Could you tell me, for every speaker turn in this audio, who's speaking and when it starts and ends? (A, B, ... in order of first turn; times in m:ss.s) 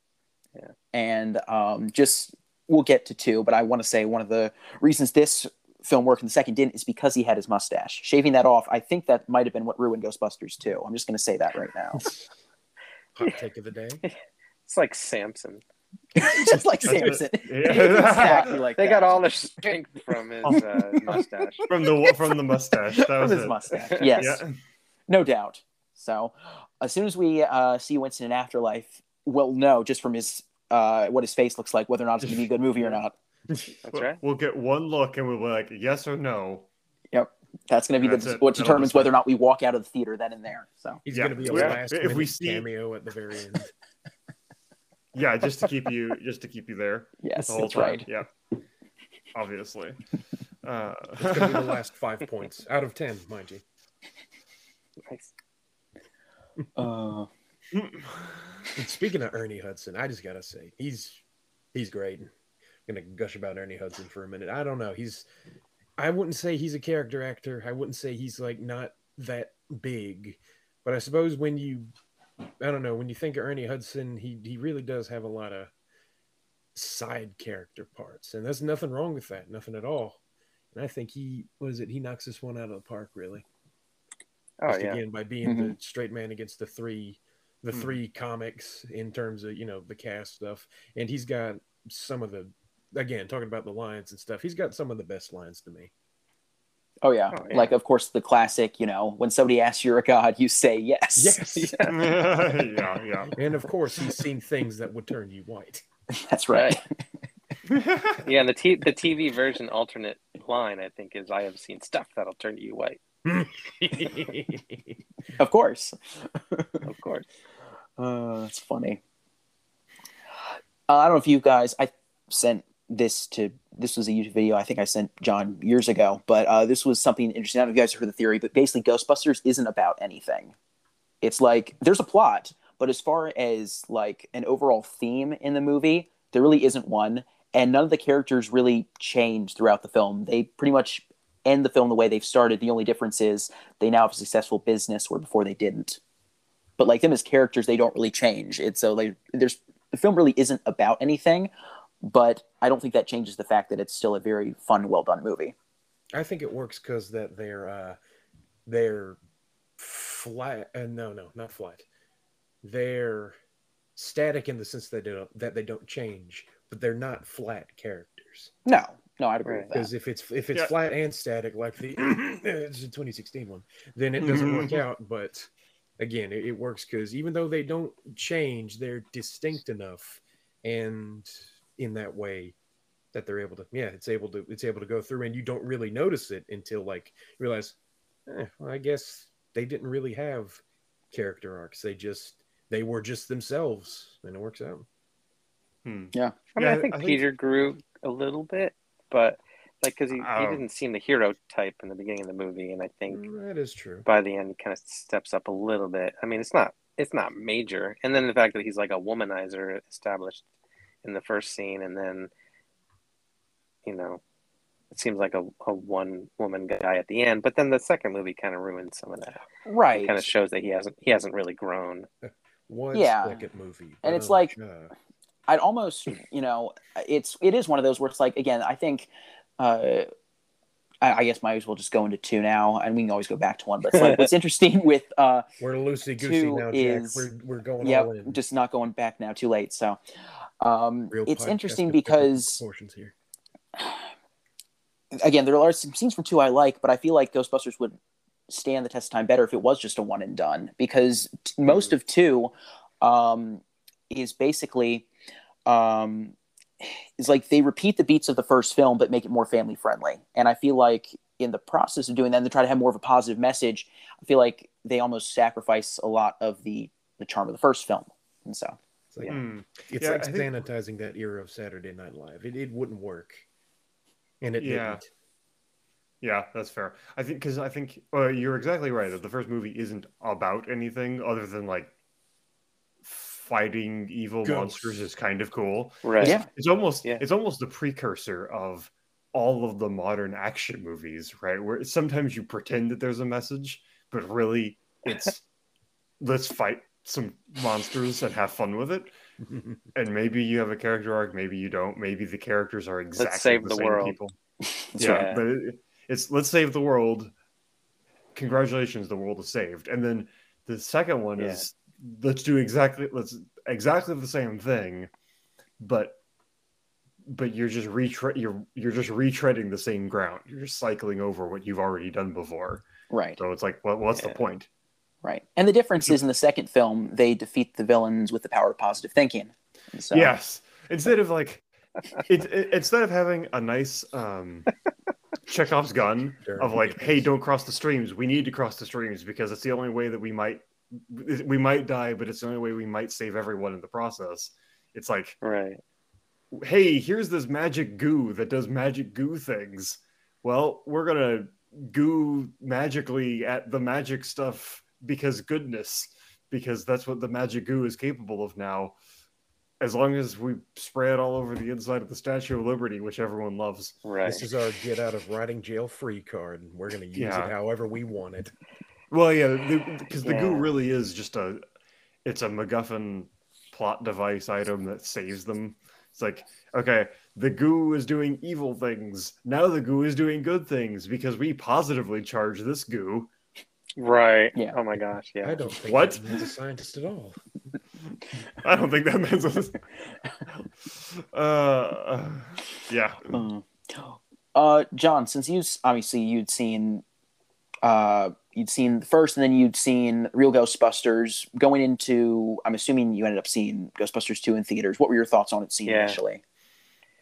0:00.9-0:12.0 A
0:13.2-0:14.0 B
0:14.0-0:15.6 C
0:16.1-0:19.2 A
0:16.8-0:18.6 D
0:17.6-0:21.6 C
0:20.4-0:24.5 D
0:22.0-0:22.3 A
0:22.9-0:24.4 A
0:23.8-0:24.3 C
0:25.1-0:33.1 A
0:33.8-0:34.2 C
0:33.9-0:36.7 D
0:37.1-0:41.8 A
0:38.0-0:39.1 D
0:41.0-0:43.7 B
0:41.1-0:42.7 D
0:45.1-0:48.3 D
0:47.2-0:48.0 A
0:49.3-0:50.0 D
0:50.6-0:51.8 D
0:51.2-0:53.6 B
0:55.0-0:55.3 C
0:56.8-0:57.3 A
0:57.8-0:58.6 D
0:58.8-1:01.2 B
1:01.7-1:02.3 B
1:02.8-1:05.2 B
1:06.0-1:11.9 B
1:12.6-1:15.7 B
1:16.7-1:20.2 B
1:20.7-1:23.4 B
1:24.6-1:25.0 C
1:24.7-1:35.9 B
1:25.4-1:25.7 A
1:27.7-1:28.0 D
1:37.0-1:41.8 A
1:37.3-1:37.7 C
1:41.2-1:41.8 B
1:41.6-1:42.0 C
1:41.9-1:43.4 D
1:43.3-1:45.8 B
1:46.1-1:46.8 A
1:46.5-1:46.8 C
1:47.7-1:48.2 D
1:48.2-1:53.0 C
1:53.2-1:55.0 B
1:55.4-1:56.8 A
1:56.8-1:57.2 C
1:58.0-1:59.0 A
2:00.9-2:10.5 A
2:11.2-2:26.0 A
2:26.8-2:31.5 A
2:32.0-2:35.5 A
2:36.1-2:38.0 B
2:38.6-2:39.2 B
2:39.8-2:41.8 B
2:42.6-2:43.4 B
2:44.0-2:48.5 B
2:48.6-2:49.9 A
2:49.7-3:02.5 B
2:54.2-2:54.8 D
3:03.1-3:07.8 B
3:08.3-3:14.8 B
3:15.8-3:17.2 D
3:16.6-3:23.2 C
3:20.2-3:20.6 D
3:23.1-3:24.0 B
3:24.0-3:30.4 C
3:31.0-3:32.3 C
3:33.8-3:34.2 C
3:34.9-3:42.1 C
3:39.6-3:40.3 A
3:42.2-3:44.9 B
3:42.9-3:43.4 A
3:44.0-3:44.5 A
3:45.5-3:50.1 A
3:51.0-3:55.4 A
3:53.9-3:54.3 C
3:55.6-3:58.4 B
3:56.2-3:57.3 A
3:57.8-4:00.0 A
4:00.6-4:02.6 A
4:01.1-4:03.1 B
4:03.8-4:04.0 A
4:05.1-4:08.0 A
4:08.5-4:15.1 A
4:15.6-4:28.8 A
4:29.1-4:33.4 B
4:29.3-4:30.5 D
4:34.4-4:35.1 B
4:34.6-4:35.0 D
4:36.2-4:41.9 D
4:43.0-4:55.4 D
4:44.4-4:45.0 B
4:46.0-4:46.4 C
4:46.2-4:46.4 A
4:56.2-4:59.1 D
4:59.4-4:59.8 B
4:59.9-5:04.4 D
5:03.2-5:04.2 C
5:04.6-5:05.2 A
5:05.0-5:05.4 C
5:05.0-5:07.3 D
5:08.3-5:15.1 D
5:11.4-5:11.7 C
5:15.8-5:16.2 D
5:17.2-5:22.8 D
5:23.1-5:23.4 A
5:23.4-5:24.7 D
5:24.2-5:24.4 C
5:25.2-5:30.3 A
5:30.1-5:31.6 D
5:32.2-5:34.7 D
5:35.5-5:45.4 D
5:36.4-5:37.3 B
5:45.4-5:45.8 C
5:46.5-5:59.0 D
5:59.8-6:04.0 D
6:04.0-6:04.5 C
6:04.2-6:08.5 B
6:07.1-6:07.5 D
6:09.1-6:11.6 D
6:10.2-6:10.7 C
6:12.2-6:23.3 D
6:24.0-6:25.6 C
6:25.4-6:27.4 B
6:25.8-6:26.2 D
6:28.6-6:29.8 D
6:31.0-6:33.3 D
6:33.3-6:37.0 A
6:37.8-6:46.4 A
6:45.8-6:46.2 C